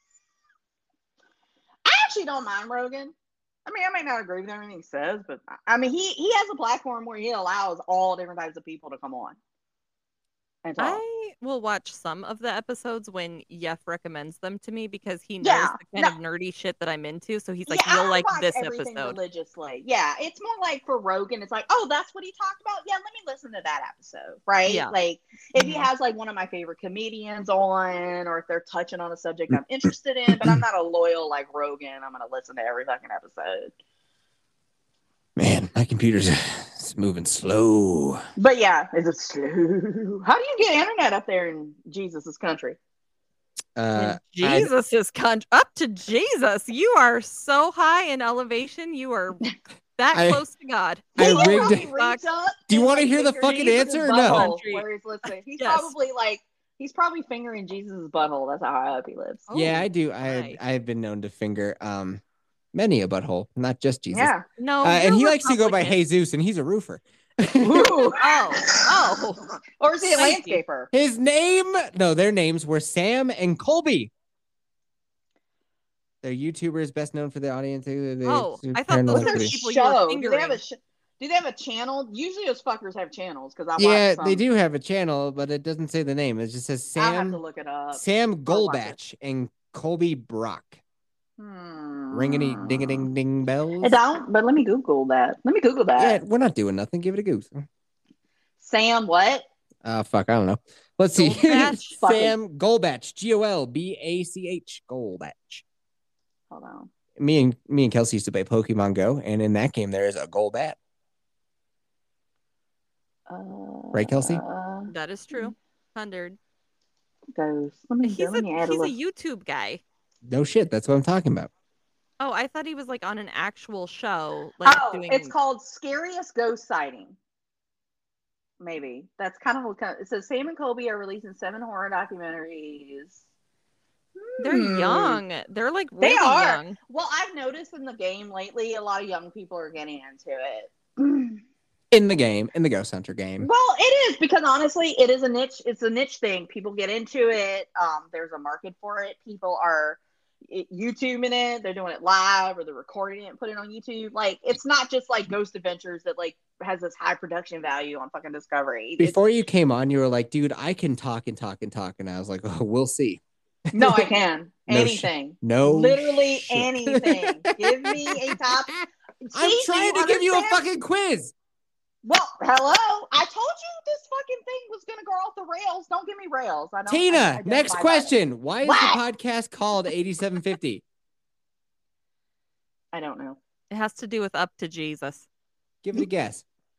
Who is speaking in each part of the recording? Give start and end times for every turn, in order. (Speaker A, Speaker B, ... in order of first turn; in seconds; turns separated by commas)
Speaker A: 1.8-3.1, Speaker A: 3.6-9.4, Speaker A: 10.6-11.0, Speaker B: 10.8-19.2, Speaker A: 15.4-16.1, Speaker A: 17.7-33.7, Speaker B: 24.6-24.9, Speaker B: 25.6-25.8, Speaker C: 35.4-38.2, Speaker A: 38.4-42.8, Speaker C: 43.8-44.7, Speaker B: 44.0-49.4, Speaker B: 50.0-52.2, Speaker C: 50.1-50.4, Speaker A: 51.1-59.5, Speaker C: 51.2-51.9, Speaker C: 52.7-54.5, Speaker B: 54.2-54.9, Speaker B: 55.6-55.9, Speaker B: 59.5-60.6, Speaker C: 59.5-62.2, Speaker C: 62.7-68.0, Speaker A: 64.1-64.4, Speaker B: 64.6-66.0, Speaker A: 67.6-68.8, Speaker B: 68.2-69.5, Speaker A: 69.8-70.9, Speaker B: 70.0-70.6, Speaker C: 70.9-74.1, Speaker C: 76.2-79.5, Speaker B: 78.2-80.6, Speaker A: 79.1-84.4, Speaker C: 83.8-87.4, Speaker A: 87.0-89.0, Speaker C: 87.9-90.8, Speaker A: 91.4-93.1, Speaker C: 92.1-94.0, Speaker A: 93.8-96.2, Speaker C: 96.0-97.6, Speaker A: 98.6-99.5, Speaker C: 99.8-105.6, Speaker B: 101.2-101.9, Speaker A: 101.4-102.3, Speaker A: 106.5-106.9, Speaker C: 107.2-110.8, Speaker A: 113.3-115.5, Speaker C: 113.9-114.4, Speaker B: 114.9-116.4, Speaker A: 117.3-118.9, Speaker B: 118.0-119.8, Speaker C: 120.2-121.5, Speaker B: 122.2-125.3, Speaker A: 124.6-127.2, Speaker A: 128.6-133.2, Speaker A: 134.2-135.2, Speaker B: 134.4-136.8, Speaker A: 136.0-141.4, Speaker C: 141.9-143.5, Speaker A: 143.4-159.2, Speaker C: 159.0-164.1, Speaker A: 163.7-168.7, Speaker C: 164.7-171.3, Speaker A: 169.2-170.6, Speaker A: 172.0-179.0, Speaker C: 176.9-180.8, Speaker A: 182.9-183.4, Speaker B: 183.7-185.2, Speaker C: 185.8-186.4